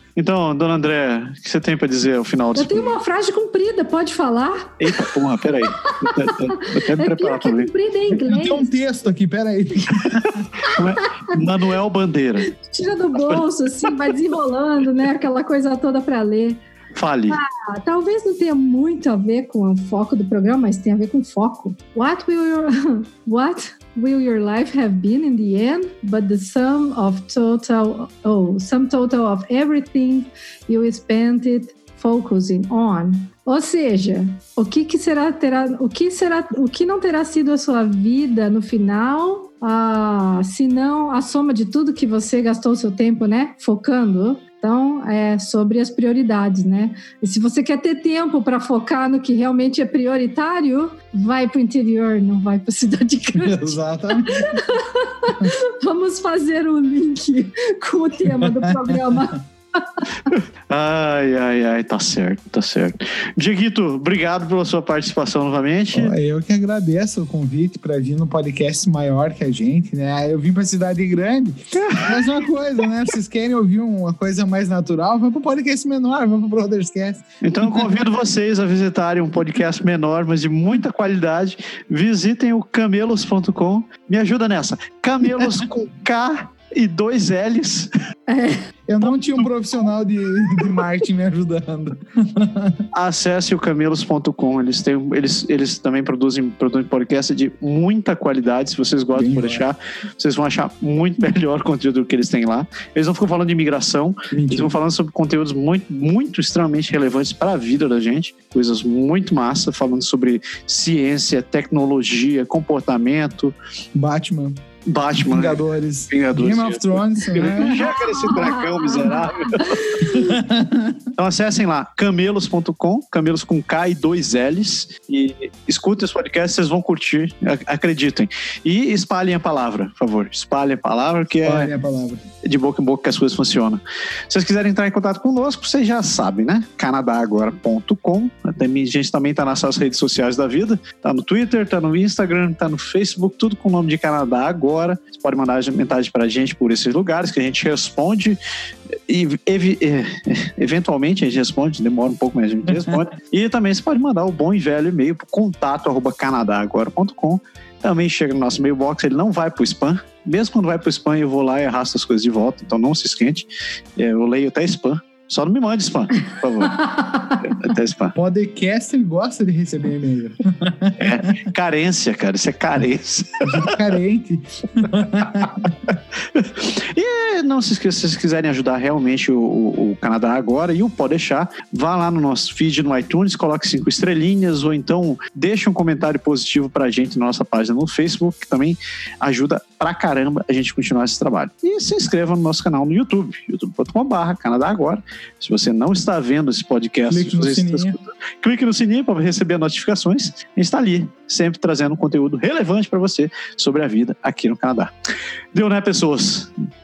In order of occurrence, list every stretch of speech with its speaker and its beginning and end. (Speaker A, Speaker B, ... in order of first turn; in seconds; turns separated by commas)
Speaker A: 0.1-3.0, Speaker B: 2.5-5.1, Speaker A: 4.8-7.7, Speaker B: 5.7-8.7, Speaker C: 8.1-10.5, Speaker B: 10.6-11.4, Speaker A: 10.6-12.5, Speaker B: 12.4-16.6, Speaker A: 16.9-17.4, Speaker B: 17.3-60.3, Speaker C: 53.4-54.6, Speaker C: 58.4-59.0, Speaker A: 60.3-66.1, Speaker C: 65.9-77.9, Speaker A: 71.8-72.4, Speaker A: 77.4-87.9, Speaker B: 88.3-88.6, Speaker C: 88.9-92.8, Speaker A: 92.9-113.5, Speaker C: 99.1-99.6, Speaker C: 104.3-104.8, Speaker C: 113.9-114.6, Speaker A: 114.9-120.2, Speaker C: 115.1-117.9, Speaker B: 117.6-120.3, Speaker C: 120.1-121.0, Speaker A: 121.2-131.7, Speaker C: 131.4-132.2, Speaker A: 132.4-148.4, Speaker A: 149.1-166.9, Speaker B: 166.8-167.4, Speaker A: 167.4-168.1, Speaker C: 168.1-171.3, Speaker A: 171.0-173.7, Speaker C: 173.4-175.7, Speaker A: 176.3-204.9, Speaker C: 197.1-197.9, Speaker A: 205.5-206.6